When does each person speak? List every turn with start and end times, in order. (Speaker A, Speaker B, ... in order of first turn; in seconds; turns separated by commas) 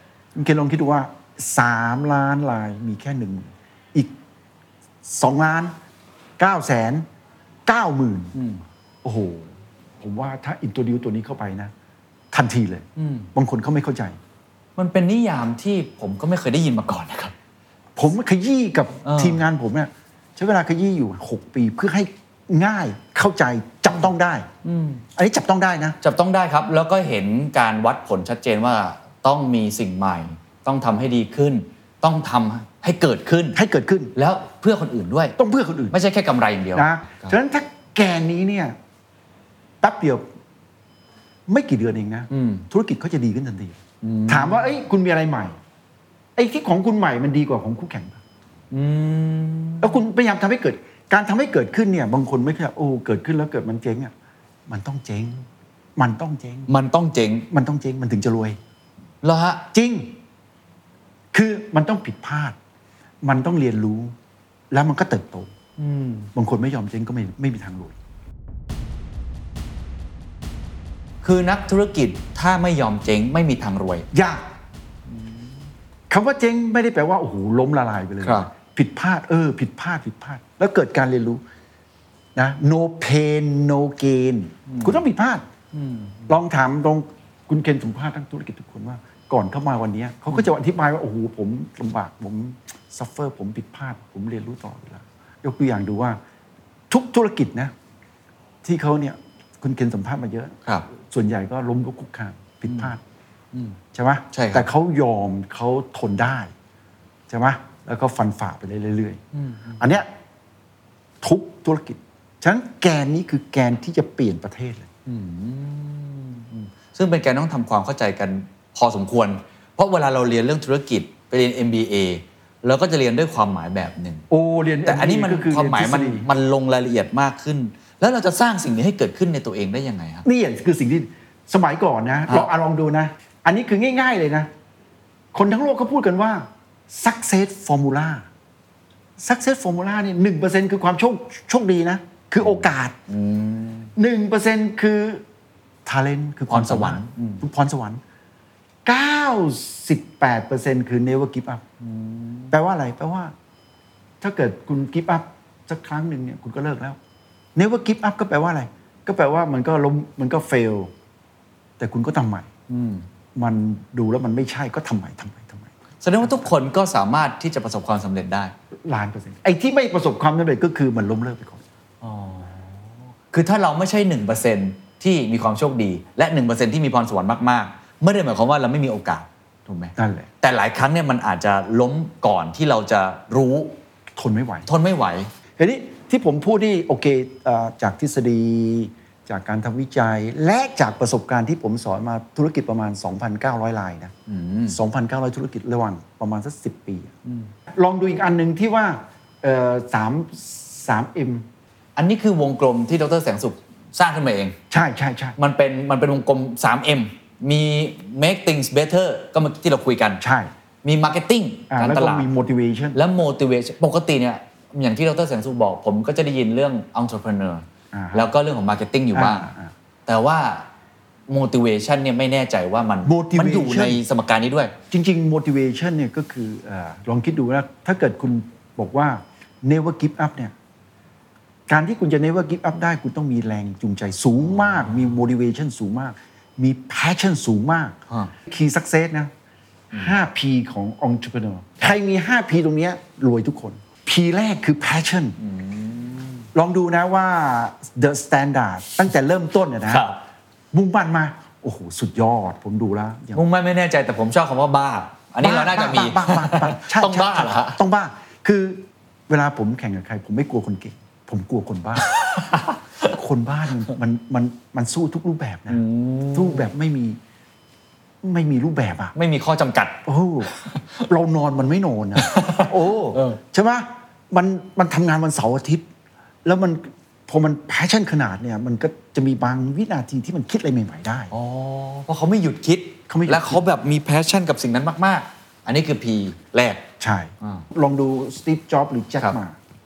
Speaker A: 0.3-4.2, Speaker A: 5.0-5.8, Speaker A: 6.4-7.0, Speaker A: 7.7-8.3, Speaker B: 8.3-8.6, Speaker A: 9.0-11.7, Speaker A: 12.3-14.2, Speaker B: 12.9-13.3, Speaker B: 14.8-17.3, Speaker A: 17.9-24.5, Speaker B: 19.0-19.4, Speaker B: 24.6-25.0, Speaker A: 25.1-26.0, Speaker B: 26.0-33.6, Speaker A: 33.5-34.1, Speaker B: 34.1-35.4, Speaker A: 35.4-36.0, Speaker B: 35.9-37.4, Speaker A: 36.7-38.8, Speaker A: 39.8-40.3, Speaker A: 41.5-45.5, Speaker B: 42.3-42.6, Speaker B: 44.0-44.7, Speaker A: 46.4-48.2, Speaker B: 48.7-50.0, Speaker A: 49.8-54.1, Speaker A: 54.7-56.7, Speaker B: 56.7-57.5, Speaker A: 57.5-58.6, Speaker B: 59.2-59.6, Speaker A: 59.7-60.2, Speaker A: 61.3-62.5, Speaker A: 63.2-64.1, Speaker A: 64.7-65.5, Speaker B: 65.8-66.3, Speaker A: 66.3-67.9, Speaker B: 71.2-74.1, Speaker A: 74.1-74.4, Speaker B: 75.1-75.5, Speaker A: 76.1-81.4, Speaker B: 78.2-78.5, Speaker A: 82.3-85.5, Speaker B: 84.7-85.0, Speaker B: 85.7-86.3, Speaker A: 86.3-96.2, Speaker A: 96.9-97.7, Speaker A: 98.6-103.0, Speaker B: 102.7-102.9, Speaker A: 103.9-106.5, Speaker B: 104.3-104.7, Speaker A: 107.3-109.2, Speaker B: 109.3-109.8, Speaker A: 109.8-110.1, Speaker A: 111.2-114.9, Speaker B: 115.0-124.2, Speaker A: 124.3-126.2, Speaker B: 124.8-130.2, Speaker A: 130.2-134.5, Speaker A: 135.3-138.2, Speaker A: 139.2-142.9, Speaker B: 142.4-143.9, Speaker A: 143.9-145.2, Speaker A: 145.8-148.0, Speaker B: 146.5-147.4, Speaker A: 148.8-151.6, Speaker B: 151.8-152.5, Speaker A: 152.5-153.3, Speaker A: 154.2-157.0, Speaker A: 157.5-160.9, Speaker A: 161.8-162.5, Speaker B: 162.7-163.1, Speaker A: 163.3-166.4, Speaker B: 166.0-168.5, Speaker A: 168.8-171.6, Speaker B: 172.0-183.8, Speaker A: 180.0-180.3, Speaker A: 184.2-184.7, Speaker B: 184.7-185.3, Speaker A: 185.6-194.1, Speaker B: 194.3-194.8, Speaker A: 194.7-197.1, Speaker B: 197.2-197.5, Speaker A: 197.7-201.4, Speaker B: 201.9-204.6, Speaker A: 204.7-205.3, Speaker B: 205.4-210.2, Speaker A: 210.2-210.5, Speaker B: 210.8-212.3, Speaker A: 211.7-213.0, Speaker B: 212.9-219.5, Speaker A: 217.9-218.3, Speaker A: 219.1-219.7, Speaker B: 220.1-220.7, Speaker B: 221.3-224.7, Speaker A: 223.0-224.0, Speaker A: 224.9-230.5, Speaker A: 231.7-239.3, Speaker B: 234.6-235.1, Speaker B: 239.9-240.2, Speaker A: 239.9-245.4, Speaker B: 245.4-246.5, Speaker A: 246.5-250.1, Speaker B: 249.9-250.2, Speaker A: 250.7-253.4, Speaker B: 253.3-257.8, Speaker A: 255.4-262.1, Speaker B: 262.0-263.1, Speaker A: 263.0-265.8, Speaker B: 265.7-266.7, Speaker A: 266.3-267.2, Speaker A: 268.2-269.1, Speaker B: 269.1-270.0, Speaker A: 270.1-270.5, Speaker B: 270.5-271.0, Speaker A: 271.1-275.9, Speaker B: 272.1-273.4, Speaker A: 276.4-281.3, Speaker B: 281.3-286.9, Speaker A: 283.1-283.6, Speaker A: 287.0-289.6